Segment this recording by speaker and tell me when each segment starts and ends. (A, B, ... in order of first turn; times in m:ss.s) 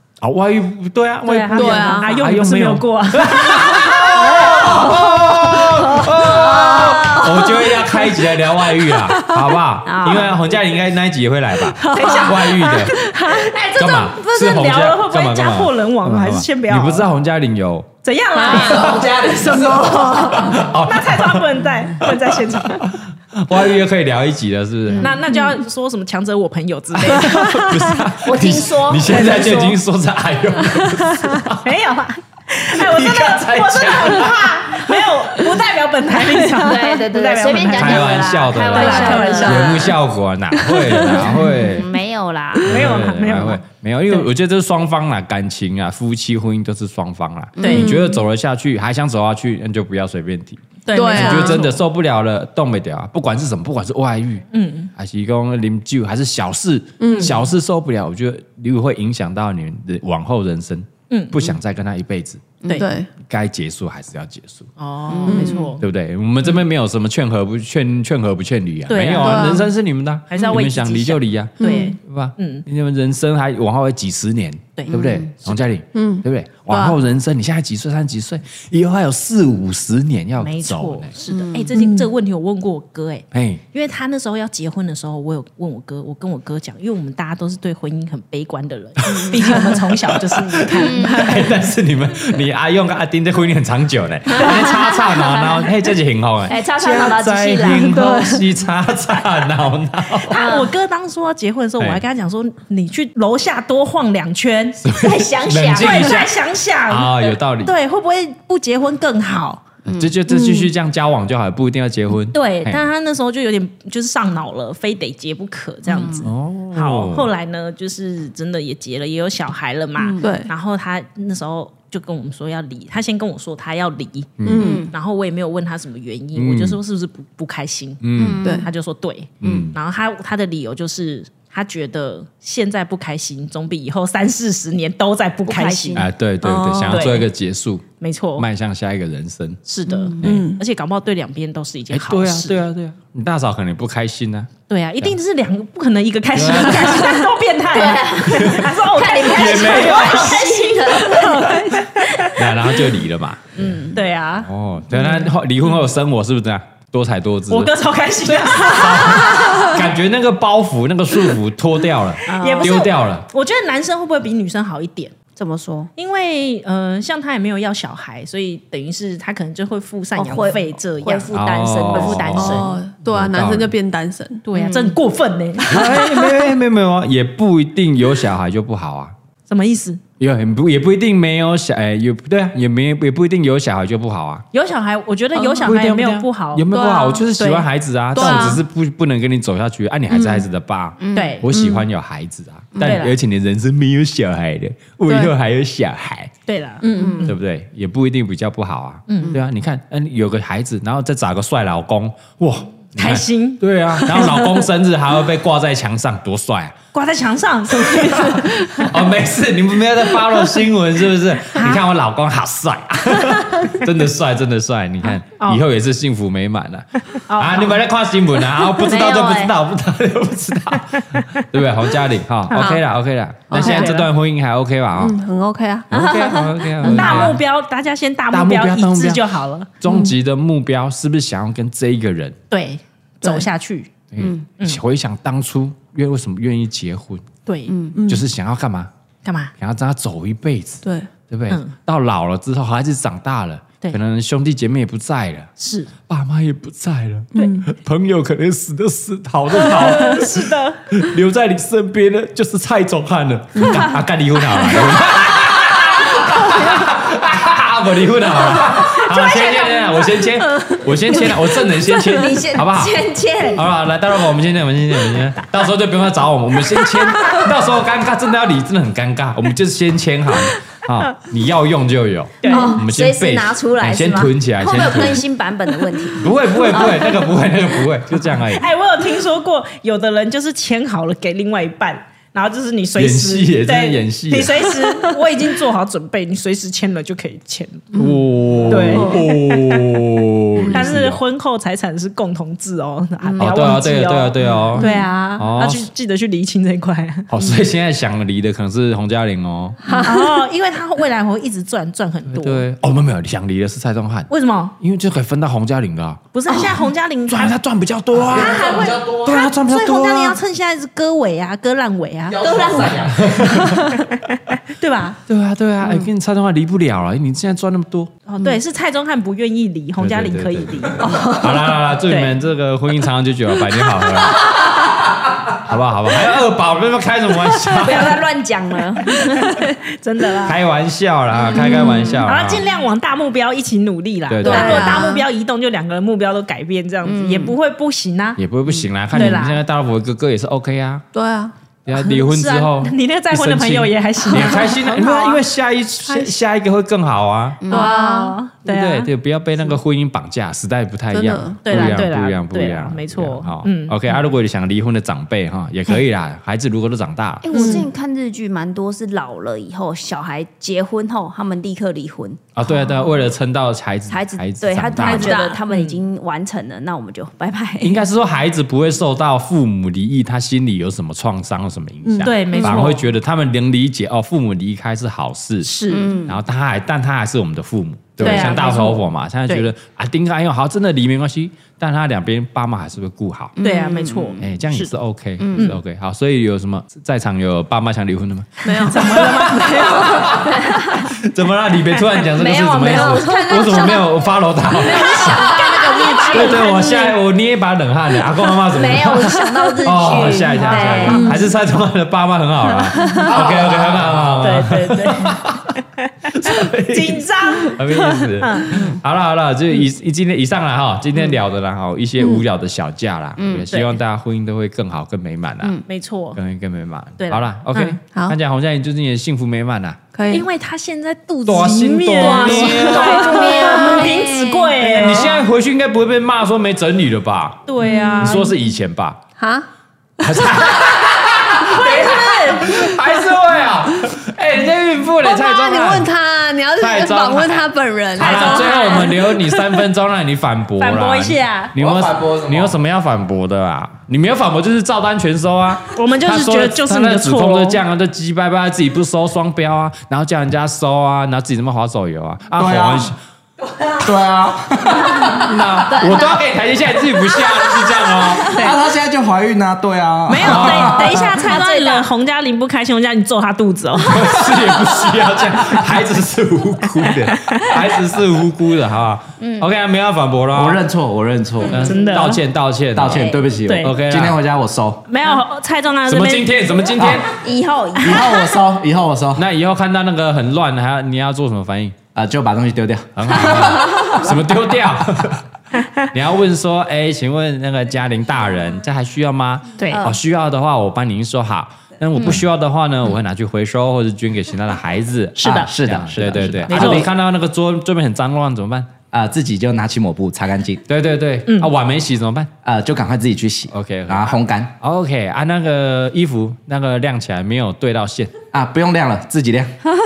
0:00.2-0:13.0 A
0:01.2-0:05.0 B
0:01.5-0:02.1 C
0:03.8-0:07.8 D
0:09.8-0:10.4 D
0:11.8-0:12.4 D
0:11.8-0:17.1 B
0:11.9-0:12.3 C
0:13.2-0:13.5 D
0:13.7-0:17.9 A
0:18.0-0:22.9 B
0:18.3-0:19.0 C
0:18.4-0:20.5 D
0:18.7-0:19.0 A
0:18.7-0:20.2 E
0:20.3-0:21.4 A
0:22.0-0:25.2 A
0:24.9-0:27.8 B
0:27.0-0:31.7 A
0:28.2-0:29.7 D
0:29.0-0:29.8 B
0:31.6-0:39.9 B
0:32.7-0:35.0 A
0:36.5-0:40.0 D
0:37.7-0:41.9 A
0:40.7-0:41.2 C
0:41.1-0:42.9 D
0:42.6-0:44.2 B
0:42.6-1:02.6 A
0:47.6-0:47.9 D
0:47.6-0:48.0 B
0:47.6-0:48.2 C
0:50.8-0:51.8 B
0:50.9-0:51.6 C
0:54.5-0:54.9 B
0:57.0-0:57.3 C
0:57.1-0:57.4 B
1:01.1-1:01.5 B
1:02.6-1:02.9 B
1:02.7-1:03.1 C
1:03.2-1:04.7 A
1:04.8-1:05.8 B
1:05.1-1:05.7 D
1:05.3-1:05.8 C
1:05.8-1:21.1 A
1:08.9-1:09.7 B
1:09.2-1:09.6 C
1:10.3-1:12.6 B
1:11.6-1:12.0 C
1:14.9-1:15.2 D
1:15.9-1:17.0 C
1:20.4-1:31.5 B
1:21.3-1:22.0 C
1:21.5-1:21.8 D
1:23.3-1:23.6 A
1:29.0-1:40.4 A
1:30.7-1:31.4 D
1:34.3-1:35.6 D
1:36.5-1:38.4 D
1:37.7-1:38.4 B
1:40.2-1:44.9 B
1:40.3-1:40.7 D
1:44.8-1:47.7 A
1:44.9-1:46.2 D
1:45.7-1:49.7 B
1:49.9-1:50.1 D
1:50.0-1:52.8 A
1:50.3-1:50.7 C
1:52.3-2:16.1 B
1:56.2-1:57.3 A
2:00.0-2:00.3 D
2:00.2-2:00.5 C
2:04.4-2:04.7 A
2:04.4-2:04.8 C
2:04.5-2:04.9 D
2:06.4-2:06.8 A
2:08.0-2:08.5 A
2:08.2-2:08.7 D
2:08.2-2:08.7 C
2:09.4-2:09.8 A
2:15.4-2:16.1 D
2:16.0-2:17.8 A
2:16.4-2:17.1 C
2:16.9-2:17.3 B
2:18.0-2:18.4 B
2:18.4-2:19.6 A
2:19.6-2:22.6 B
2:19.9-2:20.2 D
2:20.1-2:20.6 C
2:20.2-2:20.5 A
2:21.9-2:24.5 A
2:24.7-2:32.4 B
2:26.3-2:27.2 A
2:27.7-2:32.3 D
2:28.3-2:28.6 A
2:29.2-2:30.4 A
2:32.3-2:33.9 A
2:33.6-2:35.3 B
2:34.4-2:43.2 A
2:37.5-2:39.8 B
2:42.3-2:42.8 D
2:42.3-2:45.2 B
2:45.4-2:45.9 D
2:46.0-2:52.7 B
2:50.2-2:52.6 D
2:51.3-2:53.7 A
2:52.4-2:54.4 C
2:54.4-2:55.8 B
2:54.5-2:54.9 D
2:55.6-2:59.1 A
2:59.5-3:00.0 B
3:00.2-3:04.4 A
3:04.5-3:06.7 B
3:05.4-3:05.6 C
3:05.6-3:16.3 A
3:06.7-3:07.3 C
3:07.4-3:08.6 B
3:08.1-3:08.6 C
3:10.1-3:10.4 C
3:11.0-3:11.4 D
3:11.1-3:11.4 B
3:11.1-3:11.8 C
3:12.8-3:13.2 B
3:15.1-3:15.3 C
3:16.5-3:17.3 B
3:16.8-3:17.3 C
3:16.9-3:17.3 D
3:17.2-3:26.7 A
3:19.1-3:19.4 B
3:23.0-3:24.7 B
3:26.9-3:28.9 B
3:28.8-3:45.2 A
3:35.2-3:35.6 B
3:37.1-3:37.8 B
3:38.8-3:39.5 D
3:41.0-3:41.2 B
3:42.5-3:42.8 B
3:42.5-3:42.8 C
3:43.5-3:44.1 B
3:43.5-3:43.9 C
3:45.0-3:45.9 C
3:45.9-3:47.4 A
3:45.9-3:47.3 D
3:46.8-3:49.7 B
3:48.3-3:49.2 A
3:49.8-3:52.4 A
3:49.8-3:50.1 C
3:52.5-3:53.9 B
3:54.1-3:57.2 A
3:57.4-3:57.7 B
3:57.7-3:58.2 C
3:58.1-3:58.9 A
3:59.2-3:59.5 B
3:59.6-4:05.5 A
4:00.8-4:01.1 C
4:01.5-4:01.7 B
4:05.6-4:05.9 B
4:06.1-4:23.0 A
4:07.3-4:07.7 C
4:09.6-4:10.8 B
4:13.6-4:13.9 C
4:15.7-4:16.3 D
4:19.0-4:20.0 D
4:21.1-4:23.7 D
4:23.5-4:35.2 A
4:27.2-4:27.5 B
4:32.4-4:32.7 B
4:32.5-4:32.8 C
4:32.5-4:37.2 D
4:36.2-4:38.7 A
4:36.7-4:37.0 B
4:38.5-4:48.0 B
4:43.0-4:44.7 A
4:47.9-4:49.2 C
4:47.9-4:51.2 A
4:48.7-4:50.1 B
4:50.7-4:57.3 B
4:53.4-4:55.8 A
4:54.5-4:55.1 C
4:57.3-4:59.8 A
4:59.8-5:00.4 C
5:00.0-5:02.6 B
5:02.3-5:06.2 A
5:04.3-5:04.7 B
5:06.3-5:07.6 B
5:07.3-5:10.4 A
5:08.1-5:09.4 E
5:08.3-5:15.2 B
5:12.3-5:13.6 E
5:12.4-5:13.1 D
5:13.2-5:13.9 A
5:15.3-5:18.1 A
5:18.2-5:21.3 B
5:20.0-5:25.0 A
5:21.0-5:21.6 D
5:22.1-5:22.3 B
5:25.5-5:28.2 A
5:27.7-5:29.5 D
5:29.2-5:30.6 B
5:30.4-5:32.7 A
5:31.4-5:32.2 C
5:31.6-5:31.9 D
5:32.2-5:38.4 B
5:34.3-5:34.9 A
5:34.4-5:35.2 C
5:34.4-5:35.2 D
5:37.0-5:37.5 D
5:38.4-5:41.0 A
5:39.1-5:39.6 B
5:39.2-5:39.4 C
5:41.1-5:41.5 C
5:41.8-5:47.6 A
5:41.9-5:45.4 B
5:46.0-5:46.4 B
5:47.6-5:47.9 D
5:47.7-5:48.4 C
5:47.7-5:49.1 B
5:48.6-5:57.5 A
5:51.1-5:51.9 C
5:51.6-5:54.0 B
5:57.4-6:02.4 D
5:57.5-5:57.9 C
6:02.5-6:05.4 A
6:04.1-6:08.0 D
6:05.0-6:05.6 C
6:05.7-6:06.0 B
6:07.8-6:15.7 A
6:12.0-6:12.9 C
6:12.2-6:13.0 B
6:15.6-6:16.2 B
6:15.9-6:16.2 C
6:15.9-6:16.4 D
6:16.2-6:23.6 A
6:18.2-6:19.7 B
6:23.6-6:24.4 D
6:23.6-6:24.9 B
6:24.4-6:35.7 A
6:25.4-6:25.7 D
6:28.6-6:29.4 C
6:28.7-6:30.5 B
6:29.9-6:31.1 D
6:32.3-6:36.8 D
6:32.8-6:33.3 B
6:34.9-6:37.2 B
6:36.3-6:45.8 A
6:38.6-6:41.3 D
6:40.6-6:41.4 B
6:43.0-6:43.4 C
6:44.4-6:48.7 B
6:46.3-6:55.8 A
6:53.4-6:53.7 D
6:53.7-6:54.0 B
6:55.9-6:56.4 B
6:56.3-7:00.0 A
6:57.2-6:58.0 B
7:00.1-7:00.4 C
7:00.3-7:05.4 B
7:01.4-7:03.8 A
7:02.2-7:05.2 D
7:02.7-7:04.0 C
7:05.0-7:07.7 A
7:07.7-7:08.5 B
7:07.8-7:08.4 C
7:08.2-7:09.2 A
7:09.4-7:09.7 C
7:10.2-7:16.1 A
7:10.2-7:10.9 C
7:11.3-7:12.9 B
7:15.2-7:19.1 C
7:16.8-7:33.2 A
7:18.2-7:19.6 B
7:20.8-7:21.7 B
7:21.8-7:22.8 E
7:25.9-7:27.8 B
7:32.6-7:33.1 E
7:34.0-7:35.5 E
7:35.1-7:36.4 D
7:35.1-7:38.6 A
7:37.1-7:38.2 D
7:38.5-7:41.1 E
7:38.5-7:38.8 B
7:40.3-7:44.6 B
7:40.4-7:41.0 A
7:40.7-7:42.1 D
7:44.0-7:50.8 A
7:47.1-7:47.8 B
7:49.4-7:49.7 D
7:50.5-7:51.9 E
7:51.7-7:54.4 A
7:51.7-7:52.4 B
7:53.0-7:55.0 E
7:53.0-7:53.4 D
7:53.6-7:54.0 B
7:55.1-7:56.5 B
7:56.1-7:57.3 A
7:57.2-7:58.4 D
7:58.0-7:59.4 E
7:59.4-8:02.0 A
8:02.1-8:04.3 E
8:03.2-8:05.4 A
8:06.1-8:18.9 A
8:09.8-8:10.1 B
8:09.9-8:10.2 D
8:15.4-8:15.7 B
8:15.5-8:17.1 E
8:16.7-8:17.1 B
8:19.1-8:20.8 E
8:20.9-8:22.5 A
8:22.6-8:24.7 E
8:23.7-8:28.3 A
8:28.5-8:29.7 E